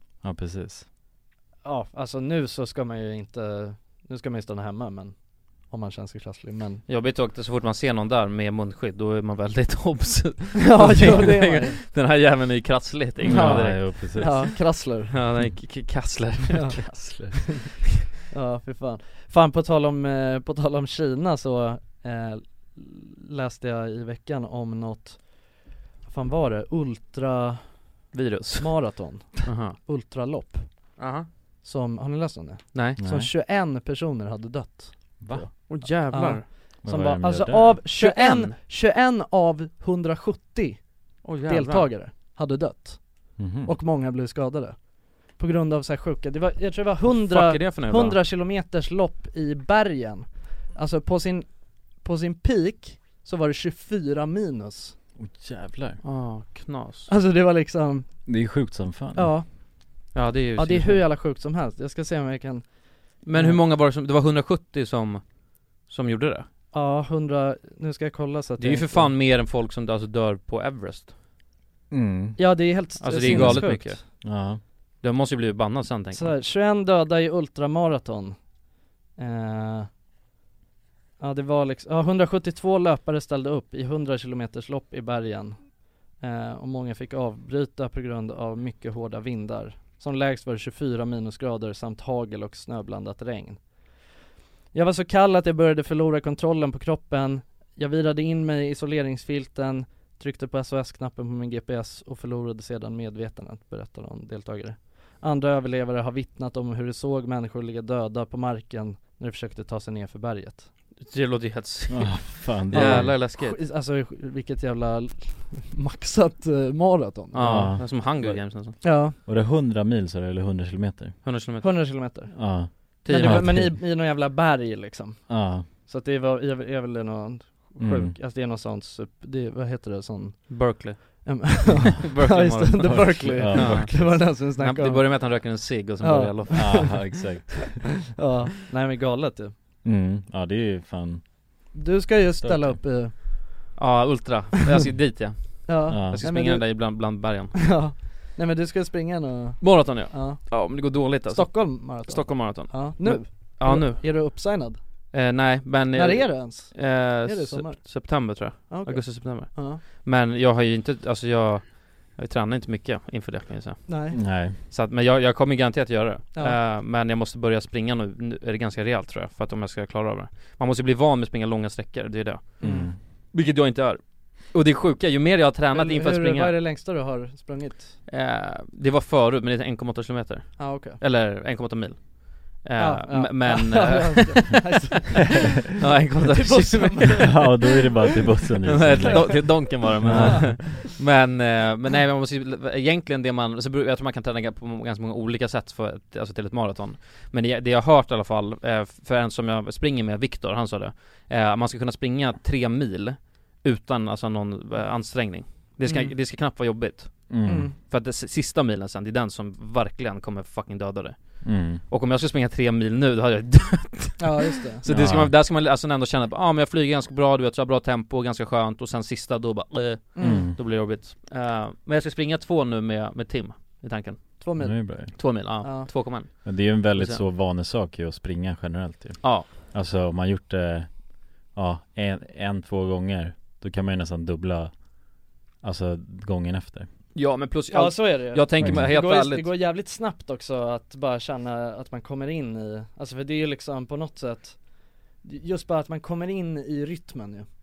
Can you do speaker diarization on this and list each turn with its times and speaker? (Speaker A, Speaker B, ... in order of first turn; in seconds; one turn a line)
Speaker A: 0.2-0.8
Speaker B: 1.6-5.1
Speaker B: 5.7-6.8
Speaker C: 6.9-14.5
Speaker B: 10.6-11.8
Speaker A: 13.2-14.5
Speaker B: 13.2-15.2
Speaker C: 15.1-17.0
Speaker B: 16.5-17.7
Speaker A: 16.9-17.4
Speaker B: 18.3-27.8
Speaker C: 28.1-29.8
Speaker B: 28.5-31.1
Speaker C: 31.0-31.3
Speaker B: 31.6-55.0
Speaker C: 32.7-33.0
Speaker A: 33.0-33.3
Speaker A: 35.2-35.5
Speaker C: 35.7-36.5
Speaker A: 36.8-37.8
Speaker C: 37.9-38.5
Speaker C: 41.2-41.9
Speaker A: 43.4-43.8
Speaker C: 47.1-48.2
Speaker A: 55.2-56.0
Speaker C: 56.0-57.1
Speaker B: 57.1-58.1
Speaker A: 58.3-59.4
Speaker B: 59.1-59.5
Speaker C: 60.1-61.0
Speaker B: 60.6-62.7
Speaker B: 63.2-63.6
Speaker C: 63.2-65.3
Speaker C: 65.8-66.5
Speaker B: 66.7-69.1
Speaker C: 68.6-71.1
Speaker A: 71.9-72.4
Speaker B: 72.4-74.1
Speaker C: 73.0-74.4
Speaker A: 73.3-74.6
Speaker C: 75.0-76.3
Speaker B: 76.1-78.4
Speaker B: 79.2-79.9
Speaker B: 81.2-93.6
Speaker B: 94.7-110.7
Speaker C: 111.0-113.6
Speaker A: 111.9-113.2
Speaker B: 112.7-118.0
Speaker C: 117.3-118.8
Speaker A: 117.4-118.4
Speaker B: 118.8-119.2
Speaker A: 119.2-121.2
Speaker C: 121.2-121.9
Speaker B: 121.6-139.5
Speaker A: 122.3-123.7
Speaker C: 123.0-123.7
Speaker A: 125.3-125.7
Speaker A: 127.8-128.2
Speaker C: 130.5-137.1
Speaker A: 133.3-134.2
Speaker A: 136.6-137.8
Speaker A: 139.8-141.2
Speaker B: 141.7-143.7
Speaker A: 142.4-142.8
Speaker C: 143.8-147.6
Speaker B: 145.7-154.8
Speaker A: 145.9-146.2
Speaker C: 149.6-154.5
Speaker C: 155.1-172.7
Speaker B: 155.9-159.8
Speaker B: 163.9-164.2
Speaker A: 164.1-164.6
Speaker B: 172.6-172.9
Speaker A: 172.6-173.0
Speaker C: 173.3-176.5
Speaker B: 175.7-178.0
Speaker C: 178.1-184.6
Speaker B: 180.6-181.0
Speaker B: 182.8-185.5
Speaker C: 185.8-187.5
Speaker B: 186.1-188.2
Speaker A: 187.2-189.4
Speaker C: 188.7-224.5
Speaker B: 188.8-190.9
Speaker A: 190.0-190.6
Speaker B: 205.8-206.1
Speaker A: 207.3-207.7
Speaker B: 207.4-207.8
Speaker A: 211.4-211.8
Speaker B: 214.2-214.8
Speaker A: 214.9-215.3
Speaker B: 220.2-220.5
Speaker A: 220.2-220.6
Speaker B: 224.4-225.9
Speaker A: 224.6-225.4
Speaker C: 225.1-227.2
Speaker A: 226.4-234.9
Speaker C: 229.2-229.5
Speaker A: 235.6-236.9
Speaker C: 237.1-239.5
Speaker B: 237.7-247.5
Speaker A: 238.6-238.9